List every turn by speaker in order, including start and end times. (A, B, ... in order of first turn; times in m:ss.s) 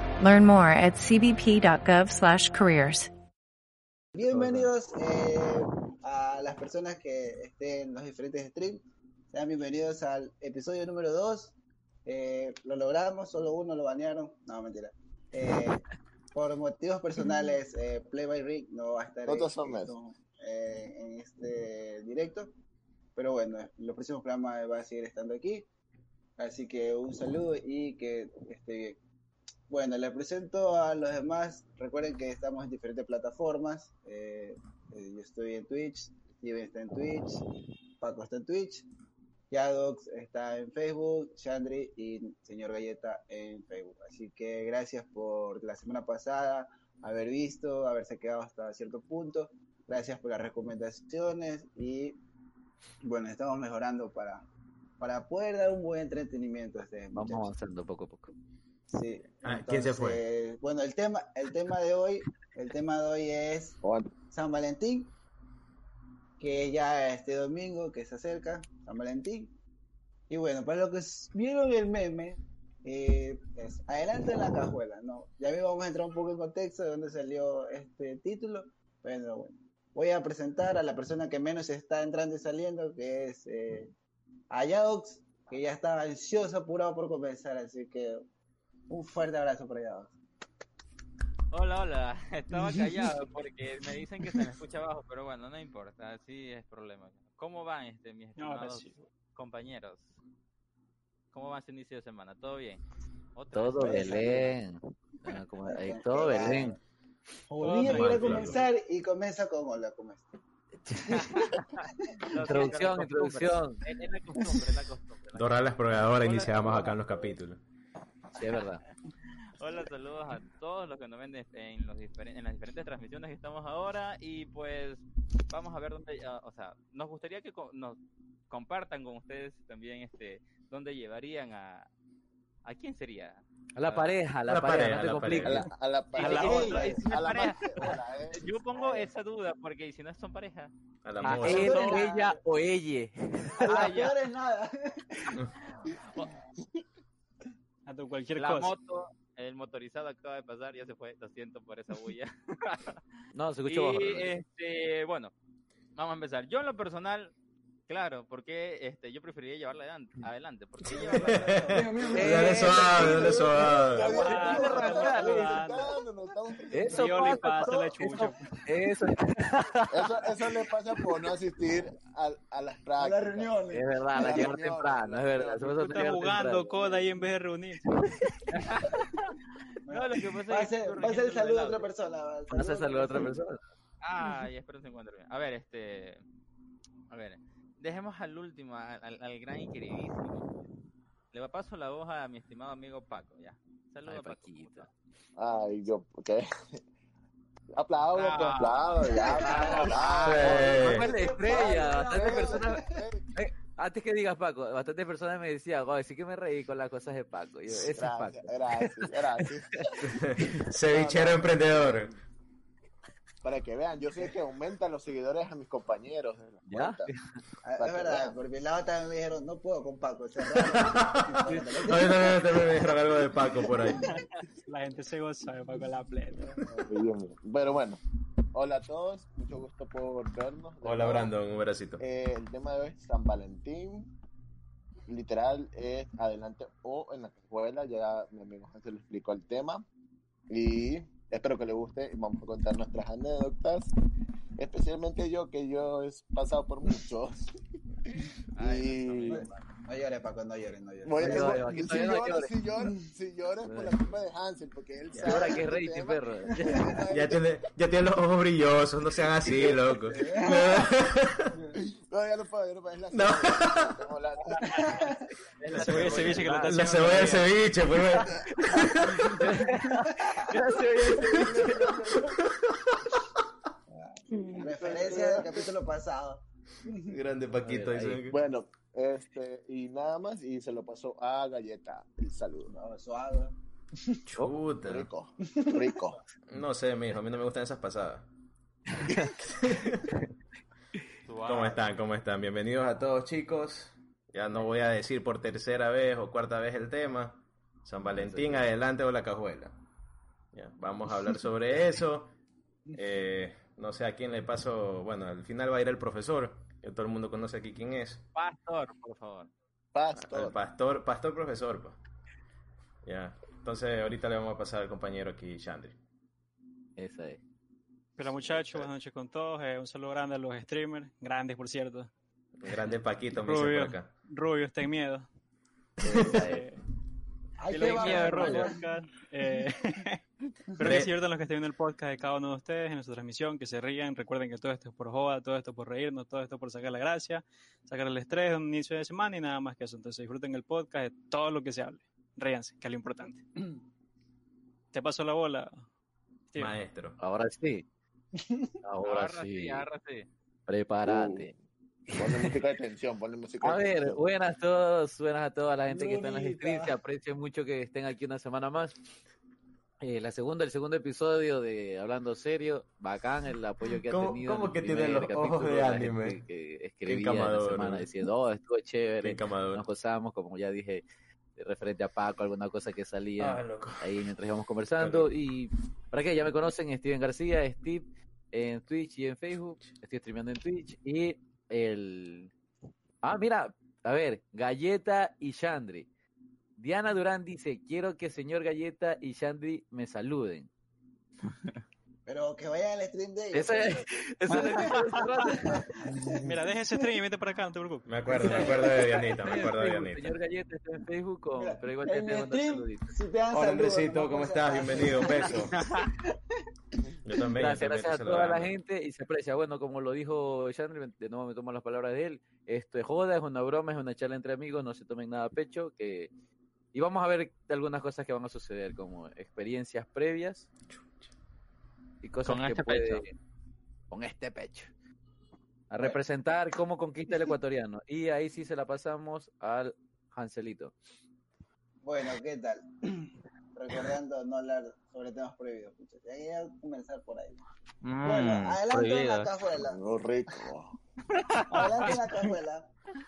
0:00.2-0:03.1 A
0:04.1-0:22.5 B
0:04.2-0:04.7 C
0:19.2-0:19.9 D
0:23.2-0:25.7 B
0:26.4-0:29.0 B
0:29.7-0:37.4 B
0:38.0-0:38.9 B
0:39.5-0:52.2 B
0:53.0-0:54.4 B
0:55.0-0:57.5 B
0:57.1-0:58.3 C
0:58.9-1:03.8 B
0:59.4-1:00.2 E
1:03.8-1:04.1 D
1:04.3-1:05.1 B
1:06.4-1:09.5 B
1:10.3-1:23.9 B
1:24.5-1:28.2 B
1:28.9-1:30.2 B
1:31.5-1:40.1 F
1:38.4-1:39.0 G
1:41.3-1:42.8 F
1:43.3-1:44.2 F
1:43.5-1:46.8 C
1:43.8-1:44.5 B
1:45.6-1:46.8 B
1:47.5-1:50.4 B
1:47.6-1:48.7 G
1:47.8-1:48.6 E
1:51.0-1:51.6 B
1:51.1-1:57.3 F
1:52.1-1:52.7 B
1:52.4-1:53.8 C
1:55.3-1:57.6 E
1:58.4-1:58.8 C
1:59.6-2:08.0 F
2:08.5-2:11.9 F
2:12.6-2:14.1 F
2:13.7-2:15.7 C
2:14.5-2:15.6 E
2:15.4-2:19.1 D
2:16.1-2:22.2 F
2:16.2-2:17.0 G
2:21.0-2:21.9 E
2:21.2-2:23.9 C
2:21.4-2:22.4 B
2:23.5-2:25.4 B
2:23.6-2:24.2 F
2:25.8-2:26.3 F
2:27.9-2:28.7 G
2:28.4-2:33.0 F
2:33.3-2:34.3 C
2:33.7-2:35.3 F
2:36.0-2:37.3 F
2:37.9-2:41.8 F
2:40.8-2:45.6 B
2:40.9-2:44.1 E
2:42.1-2:43.3 C
2:43.9-2:47.4 D
2:44.0-2:45.4 F
2:44.1-2:45.9 G
2:46.7-2:49.9 C
2:46.9-2:48.6 G
2:49.9-2:53.5 D
2:53.0-2:54.6 B
2:53.7-2:57.0 C
2:54.1-2:55.8 D
2:55.6-2:57.8 G
2:58.5-2:59.1 F
2:59.8-3:03.4 B
2:59.9-3:01.9 F
3:02.5-3:03.6 C
3:04.0-3:06.2 F
3:07.1-3:10.7 F
3:11.3-3:14.9 F
3:14.1-3:14.9 C
3:15.4-3:16.8 D
3:17.7-3:23.3 D
3:18.1-3:20.8 F
3:19.4-3:23.0 B
3:19.5-3:22.8 C
3:20.2-3:21.1 E
3:23.3-3:29.5 C
3:27.7-3:30.2 D
3:30.1-3:32.1 E
3:30.4-3:30.6 C
3:30.8-3:32.2 D
3:33.4-3:37.1 D
3:36.7-3:37.0 C
3:37.6-3:42.9 B
3:37.8-3:38.4 D
3:40.6-3:44.0 E
3:41.5-3:41.8 C
3:43.6-3:44.0 B
3:44.7-3:46.6 G
3:46.4-3:48.0 D
3:48.5-3:51.3 D
3:50.8-3:52.0 E
3:52.0-3:54.1 D
3:55.1-3:59.8 D
4:00.5-4:03.9 D
4:04.6-4:07.4 D
4:08.1-4:09.4 D
4:08.5-4:09.5 F
4:09.2-4:12.0 B
4:11.0-4:17.5 D
4:11.2-4:12.5 C
4:13.6-4:14.0 C
4:15.2-4:15.6 B
4:15.2-4:16.8 C
4:17.1-4:21.5 E
4:20.1-4:20.9 B
4:21.8-4:25.0 D
4:23.1-4:23.9 E
4:24.6-4:25.1 B
4:25.6-4:26.6 F
4:25.7-4:27.6 G
4:25.8-4:29.4 E
4:25.8-4:26.6 C
4:29.2-4:31.7 C
4:29.3-4:31.8 B
4:30.5-4:31.3 F
4:31.2-4:32.3 D
4:32.4-4:32.9 E
4:33.9-4:37.0 B
4:34.4-4:35.7 D
4:37.0-4:38.4 E
4:37.6-4:38.2 C
4:38.3-4:42.7 D
4:42.7-4:44.2 B
4:44.3-4:45.1 E
4:44.8-4:46.2 D
4:45.6-4:45.9 B
4:46.5-4:48.3 E
4:49.0-4:49.3 C
4:49.2-4:50.0 E
4:51.2-4:51.8 F
4:51.4-4:59.7 E
4:58.1-4:58.6 C
5:00.5-5:02.3 E
5:02.9-5:08.2 E
5:08.4-5:09.5 F
5:09.9-5:10.6 D
5:10.2-5:12.0 E
5:13.0-5:16.0 E
5:17.0-5:17.4 C
5:18.2-5:22.1 G
5:22.6-5:24.1 E
5:23.3-5:25.3 G
5:26.0-5:26.3 E
5:26.0-5:26.6 C
5:26.2-5:26.8 G
5:27.6-5:28.8 B
5:27.7-5:30.2 G
5:27.8-5:28.7 F
5:30.8-5:43.4 G
5:30.8-5:31.1 E
5:44.9-5:45.8 G
5:46.5-5:46.8 G
5:46.6-5:47.2 E
5:47.2-5:47.8 C
5:48.4-5:48.7 B
5:48.8-5:49.8 C
5:49.0-5:50.3 F
5:50.7-5:51.5 C
5:51.0-5:51.6 D
5:52.1-5:52.5 C
5:52.1-5:54.2 D
5:53.6-5:59.0 C
5:55.9-5:56.9 B
6:00.0-6:11.0 C
6:04.1-6:06.4 E
6:07.0-6:08.1 E
6:09.2-6:09.8 E
6:11.6-6:22.5 C
6:13.4-6:14.3 E
6:15.0-6:15.3 E
6:23.2-6:26.1 C
6:26.8-6:30.7 C
6:32.3-6:34.1 B
6:33.5-6:35.9 C
6:34.8-6:35.2 F
6:35.4-6:36.4 B
6:36.4-6:38.8 G
6:38.0-6:40.4 E
6:38.4-6:38.7 C
6:38.4-6:38.8 B
6:39.3-6:43.1 C
6:41.6-6:46.3 B
6:43.5-6:45.8 E
6:45.8-6:46.1 F
6:47.2-6:48.8 E
6:47.6-6:56.3 C
6:56.9-7:00.7 C
7:00.9-7:01.2 E
7:02.2-7:03.4 C
7:02.4-7:03.2 F
7:04.1-7:04.9 C
7:05.9-7:10.9 C
7:12.0-7:17.6 B
7:18.0-7:19.5 F
7:18.2-7:20.0 B
7:19.8-7:21.0 D
7:21.7-7:22.9 B
7:21.7-7:22.1 G